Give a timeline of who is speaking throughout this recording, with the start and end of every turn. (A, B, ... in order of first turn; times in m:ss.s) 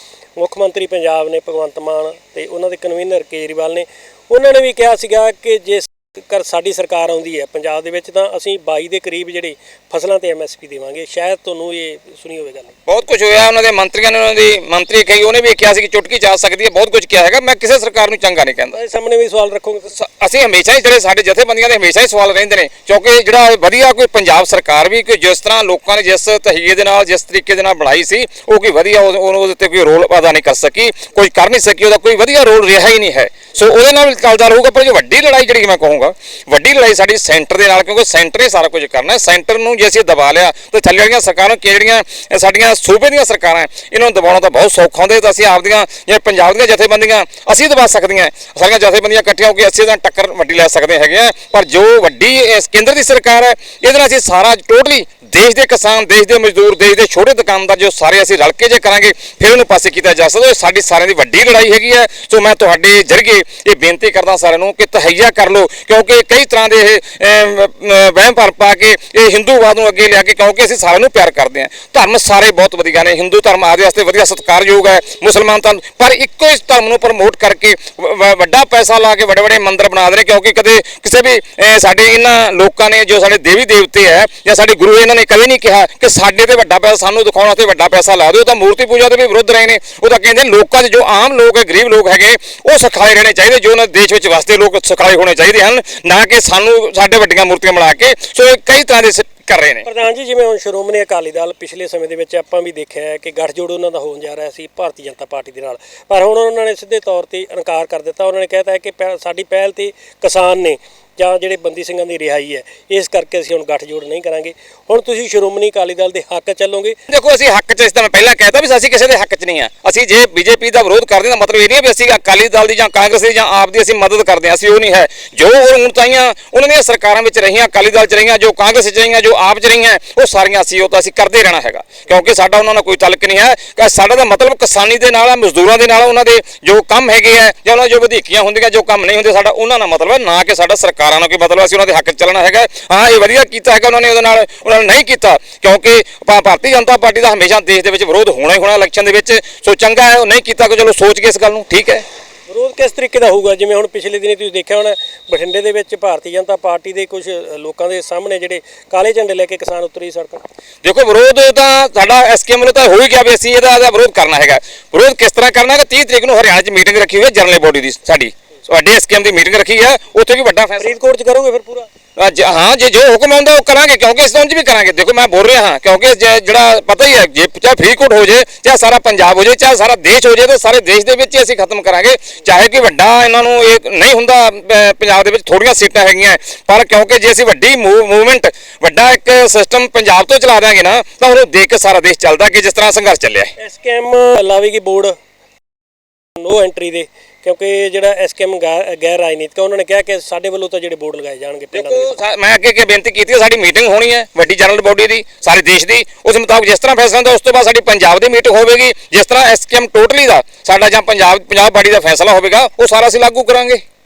0:00.4-0:12.7 A
0:12.8-0:18.8 B
0:18.7-0:19.9 A
0:20.0-1:39.8 B
1:39.8-1:57.0 A
1:57.1-2:32.0 B
2:32.5-2:40.4 A
2:40.8-2:50.9 B
2:50.8-2:51.9 A
2:52.2-3:13.5 B
3:13.6-3:15.1 A
3:16.4-3:22.1 A
3:21.7-3:33.8 B